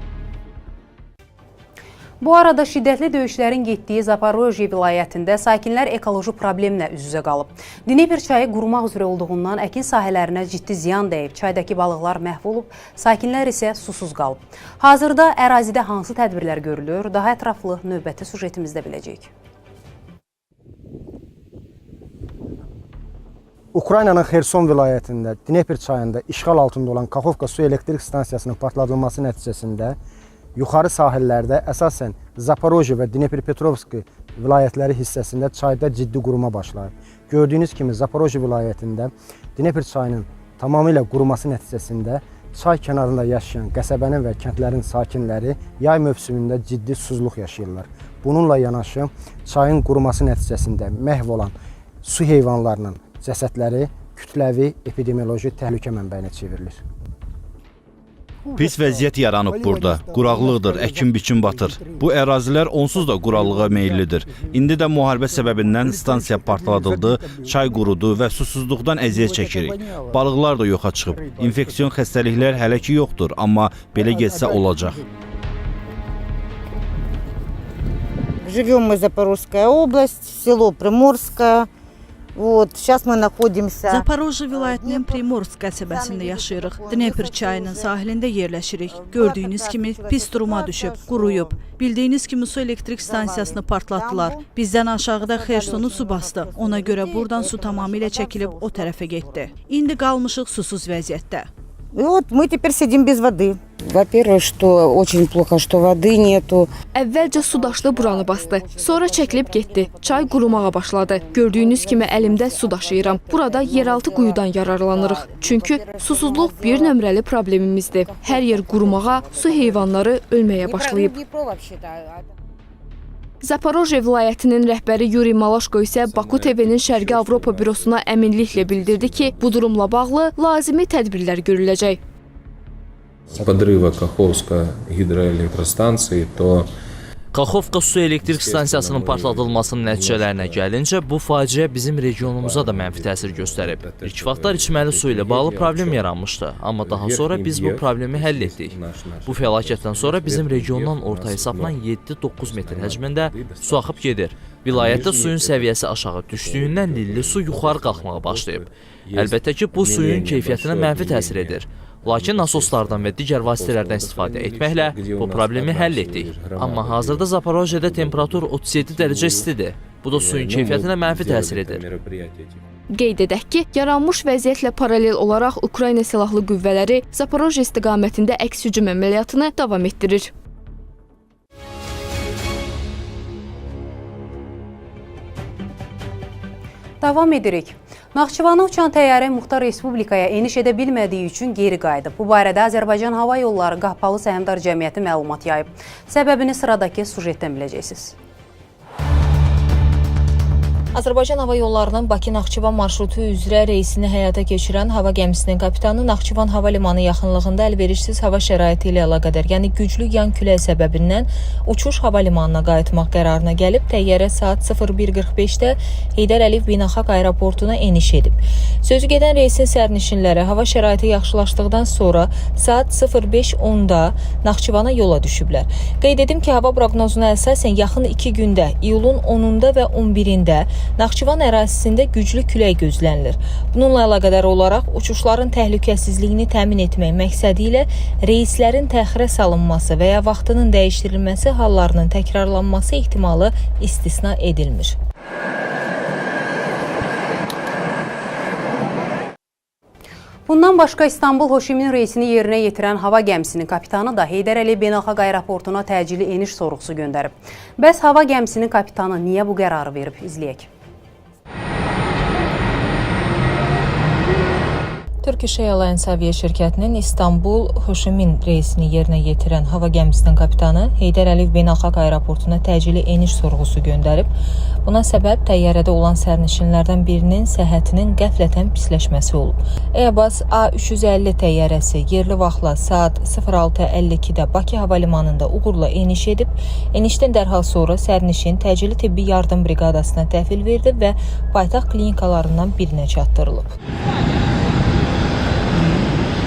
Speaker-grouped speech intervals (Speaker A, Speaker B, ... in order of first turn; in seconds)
Speaker A: 2.2-19.3, 187.0-198.2, 250.5-260.7
Speaker B: 23.7-30.0, 30.6-56.8
Speaker C: 58.6-75.0
Speaker D: 78.4-81.7, 82.4-85.3, 85.8-88.0, 88.9-91.6, 92.9-99.5, 101.9-106.7, 107.5-110.3, 111.5-114.2, 115.1-116.7, 118.1-119.0, 120.7-121.9
Speaker E: 84.1-101.5
Speaker F: 106.9-121.2, 123.4-132.0, 172.9-180.3
Speaker G: 126.1-129.5, 133.3-136.7, 137.6-140.7, 142.2-169.5, 170.1-172.6
Speaker H: 137.3-171.8
Speaker I: 200.9-245.0, 265.2-274.3, 274.9-293.7